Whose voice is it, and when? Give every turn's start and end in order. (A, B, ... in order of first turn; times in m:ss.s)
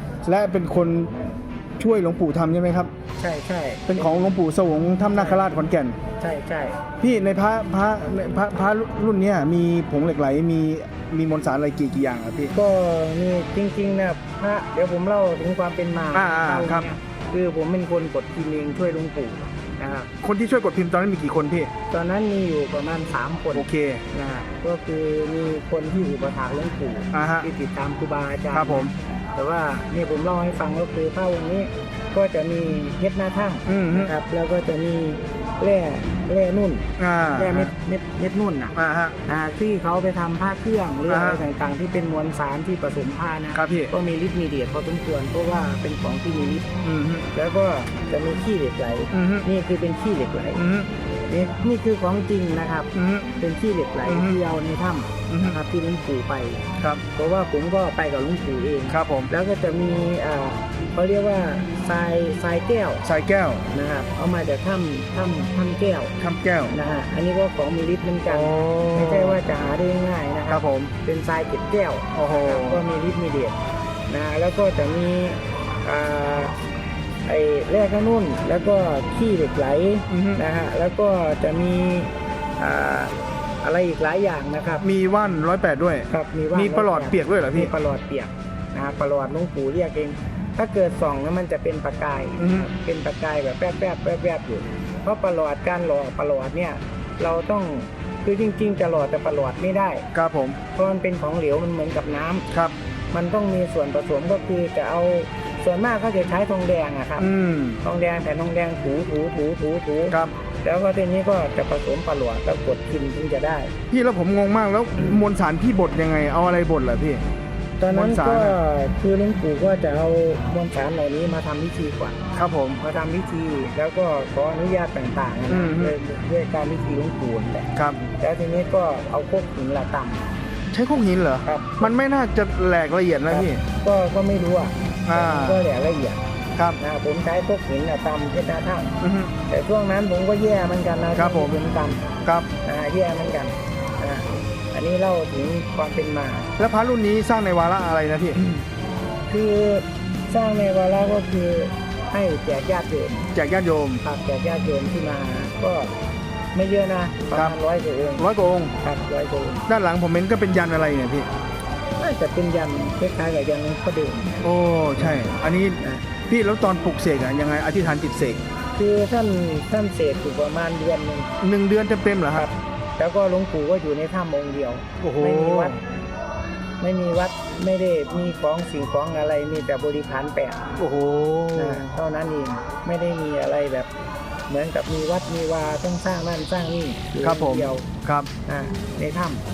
0:00.2-0:01.1 A
0:01.8-0:02.9 A
0:03.2-0:04.4 B
0:03.9-0:06.0 A
0:05.1-0:05.6 B
0:06.2-0:06.8 B
0:07.0-0:12.5 A
0:12.5-0:20.1 B
0:16.1-0:16.9 A
0:20.2-0:21.7 A
0:21.9-0:38.7 B
0:23.5-0:24.0 A
0:27.1-0:27.5 A
0:28.5-0:28.9 A
0:33.6-0:34.1 A
0:37.0-0:37.7 A
0:38.7-0:39.1 A
0:39.2-0:46.7 B
0:41.1-0:41.4 A
0:43.5-0:43.9 A
0:46.8-0:47.3 A
0:47.3-0:50.6 B
0:49.1-0:49.4 A
0:50.6-0:50.9 A
0:51.3-1:03.0 B
0:52.9-0:53.3 A
0:54.0-0:54.4 A
0:55.3-0:55.6 A
0:58.9-0:59.3 A
1:03.0-1:03.7 A
1:03.7-1:06.1 B
1:06.2-1:06.7 A
1:06.7-1:13.6 B
1:08.3-1:09.4 A
1:10.5-1:10.9 A
1:12.1-1:12.8 A
1:14.1-1:16.5 B
1:17.2-1:24.8 B
1:20.1-1:20.4 A
1:24.8-1:27.7 A
1:26.1-1:40.1 B
1:32.4-1:32.7 A
1:40.1-1:40.6 A
1:40.7-1:42.5 B
1:43.1-1:47.3 B
1:47.2-1:47.8 A
1:47.8-1:53.7 B
1:53.9-1:57.2 A
1:57.8-2:02.2 B
1:57.9-1:58.6 A
2:02.3-2:02.8 A
2:02.8-2:10.2 B
2:05.5-2:05.9 A
2:10.7-2:13.6 A
2:11.4-2:11.9 B
2:13.3-2:16.2 B
2:15.1-2:15.6 A
2:16.8-2:18.9 B
2:19.0-2:19.3 A
2:19.5-2:22.1 B
2:21.2-2:21.6 A
2:22.6-2:26.5 B
2:26.6-2:28.4 A
2:29.3-2:33.3 B
2:33.3-2:34.0 A
2:34.0-2:35.9 B
2:36.5-2:38.2 B
2:38.2-2:38.7 A
2:38.8-2:39.6 B
2:39.7-2:41.3 A
2:42.0-2:44.4 B
2:44.4-2:48.4 A
2:45.8-2:46.0 B
2:48.8-2:51.3 B
2:51.4-2:52.4 A
2:52.3-2:55.8 B
2:55.0-2:55.7 A
2:56.8-3:00.7 B
3:00.8-3:01.8 A
3:01.5-3:03.9 B
3:04.5-3:07.9 B
3:07.2-3:08.3 A
3:08.4-3:09.4 B